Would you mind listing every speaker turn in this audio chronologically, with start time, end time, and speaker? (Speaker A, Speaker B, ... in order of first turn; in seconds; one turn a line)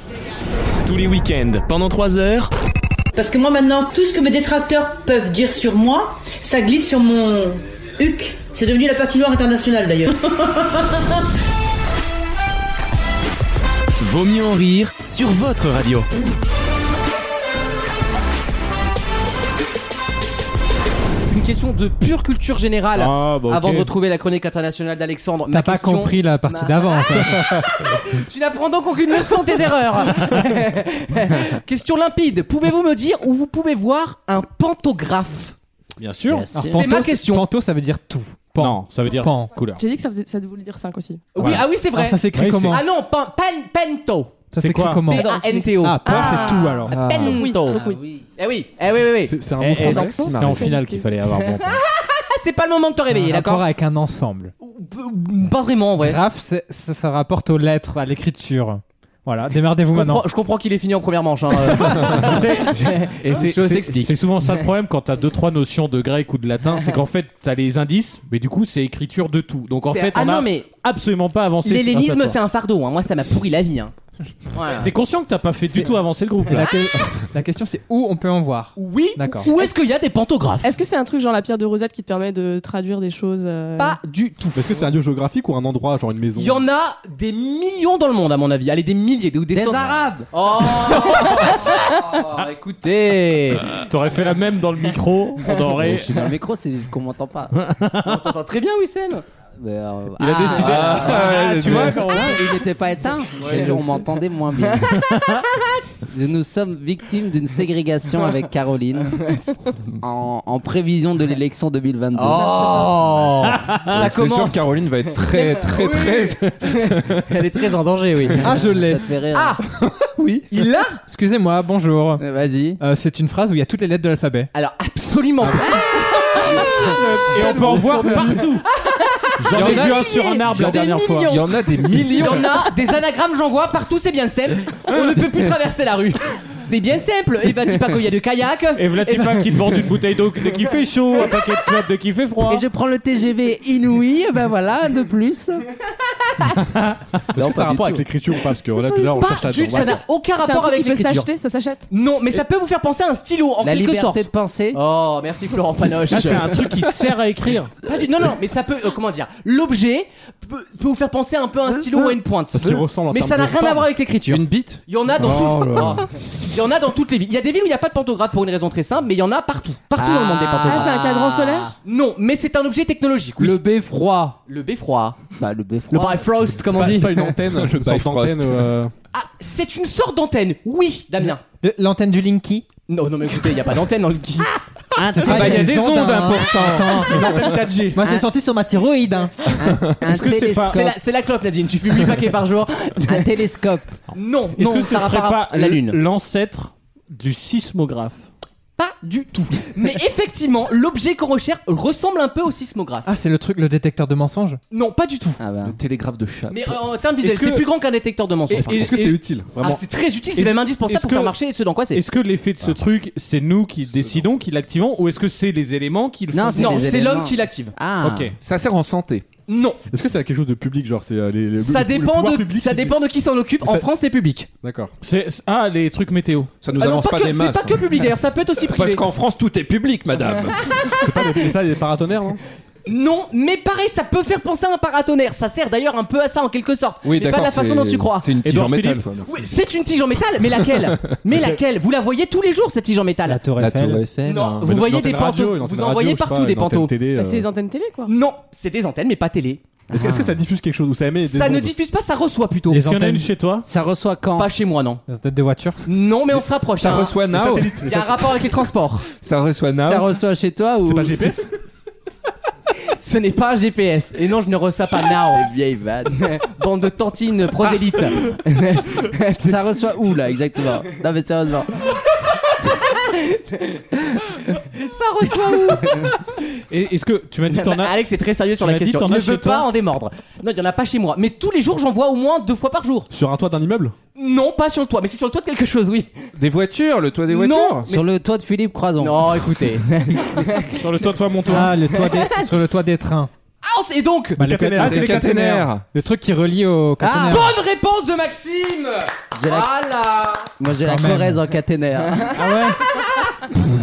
Speaker A: 0.8-2.5
Speaker B: 3.1-11.1
Speaker A: 14.0-16.1
Speaker C: 21.3-35.5
Speaker D: 22.9-23.9
Speaker E: 25.5-27.7
Speaker D: 36.0-36.5
Speaker F: 36.3-36.9
Speaker E: 36.5-39.5
Speaker C: 36.7-37.5
Speaker D: 38.6-39.8
Speaker G: 39.7-41.3
Speaker C: 41.3-44.5
Speaker D: 41.4-41.6
Speaker E: 41.4-42.8
Speaker D: 42.3-42.8
Speaker E: 44.5-47.1
Speaker D: 44.5-45.1
Speaker C: 45.1-47.8
Speaker G: 45.1-48.0
Speaker H: 46.9-47.4
Speaker F: 47.7-48.3
Speaker C: 48.4-49.4
Speaker I: 49.2-50.6
Speaker D: 49.6-51.8
Speaker G: 49.8-51.1
Speaker H: 50.3-50.6
Speaker C: 51.8-53.7
Speaker E: 53.1-54.5
Speaker C: 54.6-56.2
Speaker E: 56.0-60.2
Speaker C: 59.9-64.1
Speaker D: 62.1-72.4
Speaker C: 69.8-70.7
Speaker C: 71.6-73.9
Speaker C: 74.5-74.9
Speaker D: 74.8-76.7
Speaker E: 76.4-79.5
Speaker C: 78.8-80.8
Speaker G: 80.6-84.0
Speaker C: 83.8-84.9
Speaker I: 84.5-86.6
Speaker C: 86.3-93.8
Speaker F: 89.5-90.3
Speaker D: 93.7-96.2
Speaker F: 95.8-97.5
Speaker D: 97.5-98.3
Speaker C: 98.0-99.2
Speaker F: 99.6-101.1
Speaker D: 100.2-102.6
Speaker C: 100.4-101.3
Speaker H: 100.5-102.0
Speaker F: 101.8-105.1
Speaker C: 103.4-104.0
Speaker D: 103.4-103.7
Speaker D: 105.0-105.4
Speaker F: 106.1-109.3
Speaker F: 110.0-113.2
Speaker C: 112.1-118.6
Speaker D: 113.4-114.1
Speaker H: 113.9-117.5
Speaker E: 118.4-119.1
Speaker F: 118.6-119.6
Speaker C: 119.3-119.7
Speaker H: 120.2-120.5
Speaker C: 120.5-121.0
Speaker E: 121.1-122.2
Speaker F: 122.2-122.8
Speaker E: 122.8-124.5
Speaker C: 124.5-128.2
Speaker I: 126.5-128.6
Speaker D: 127.3-128.6
Speaker C: 128.8-131.2
Speaker D: 129.4-131.6
Speaker H: 129.5-130.0
Speaker G: 129.9-130.9
Speaker H: 131.2-132.6
Speaker C: 132.1-139.9
Speaker D: 138.7-142.6
Speaker F: 142.4-145.7
Speaker I: 147.3-150.0
Speaker G: 148.8-151.9
Speaker C: 149.2-151.3
Speaker C: 151.9-156.9
Speaker F: 153.6-154.8
Speaker D: 156.1-157.7
Speaker C: 157.8-170.9
Speaker I: 162.5-163.9
Speaker H: 164.2-164.8
Speaker F: 165.2-166.1
Speaker F: 169.9-171.7
Speaker G: 170.6-171.7
Speaker C: 171.8-173.6
Speaker F: 173.4-174.4
Speaker C: 174.5-175.2
Speaker F: 175.4-176.3
Speaker C: 175.9-177.3
Speaker I: 176.6-178.9
Speaker H: 177.5-178.7
Speaker C: 179.1-181.4
Speaker E: 181.6-182.7
Speaker C: 182.9-184.5
Speaker F: 184.9-186.8
Speaker E: 185.1-189.5
Speaker H: 185.2-187.6
Speaker I: 187.1-188.1
Speaker F: 188.0-188.3
Speaker F: 189.5-191.0
Speaker D: 190.0-190.8
Speaker C: 190.7-193.3
Speaker F: 193.1-194.0
Speaker C: 194.1-196.0
Speaker D: 194.5-198.3
Speaker C: 198.8-203.1
Speaker E: 203.1-204.6
Speaker C: 204.7-205.4
Speaker F: 205.4-205.8
Speaker H: 205.6-206.8
Speaker C: 206.5-208.9
Speaker D: 207.2-207.7
Speaker D: 208.5-209.2
Speaker I: 208.5-209.8
Speaker C: 209.6-212.0
Speaker D: 210.3-211.3
Speaker D: 211.9-217.0
Speaker F: 216.3-218.3
Speaker C: 216.6-217.7
Speaker D: 218.0-218.3
Speaker H: 218.4-219.3
Speaker C: 219.5-219.8
Speaker I: 219.9-223.0
Speaker C: 221.6-224.5
Speaker I: 223.6-223.9
Speaker I: 224.6-224.9
Speaker D: 225.0-226.5
Speaker H: 226.6-227.9
Speaker C: 226.8-229.1
Speaker H: 228.6-230.7
Speaker C: 230.8-231.3
Speaker I: 230.9-232.4
Speaker C: 232.8-238.3
Speaker H: 237.0-239.5
Speaker D: 238.4-239.1
Speaker C: 239.2-243.5
Speaker E: 243.2-244.4
Speaker H: 243.5-244.7
Speaker C: 244.2-246.9
Speaker I: 244.6-247.5
Speaker G: 247.1-248.1
Speaker C: 248.1-249.8
Speaker I: 249.9-251.7
Speaker F: 249.9-250.4
Speaker C: 251.2-252.9
Speaker D: 252.7-253.7
Speaker E: 252.9-253.3
Speaker F: 253.7-254.5
Speaker C: 254.3-255.0
Speaker E: 255.1-255.8
Speaker C: 255.8-259.1
Speaker H: 256.7-257.9
Speaker I: 257.3-258.1
Speaker H: 259.1-260.1
Speaker F: 259.8-261.3
Speaker I: 260.8-261.5
Speaker C: 262.9-265.5
Speaker F: 265.3-266.4
Speaker C: 266.2-269.6
Speaker F: 269.4-271.9
Speaker C: 272.6-276.3
Speaker D: 276.7-278.0
Speaker C: 277.5-283.1
Speaker D: 278.6-279.7
Speaker I: 283.1-283.9
Speaker C: 284.1-286.1
Speaker H: 286.4-287.9
Speaker C: 287.3-288.0
Speaker F: 287.9-289.4
Speaker C: 289.0-290.8
Speaker D: 290.7-291.8
Speaker E: 291.4-293.3
Speaker C: 291.5-292.5
Speaker C: 293.6-294.5
Speaker E: 294.4-295.2
Speaker I: 294.4-295.1
Speaker D: 294.8-295.7
Speaker H: 294.8-295.9
Speaker E: 295.9-297.6
Speaker C: 297.0-300.5
Speaker F: 299.3-299.7
Speaker F: 300.6-302.4
Speaker E: 300.8-301.4
Speaker D: 302.4-302.8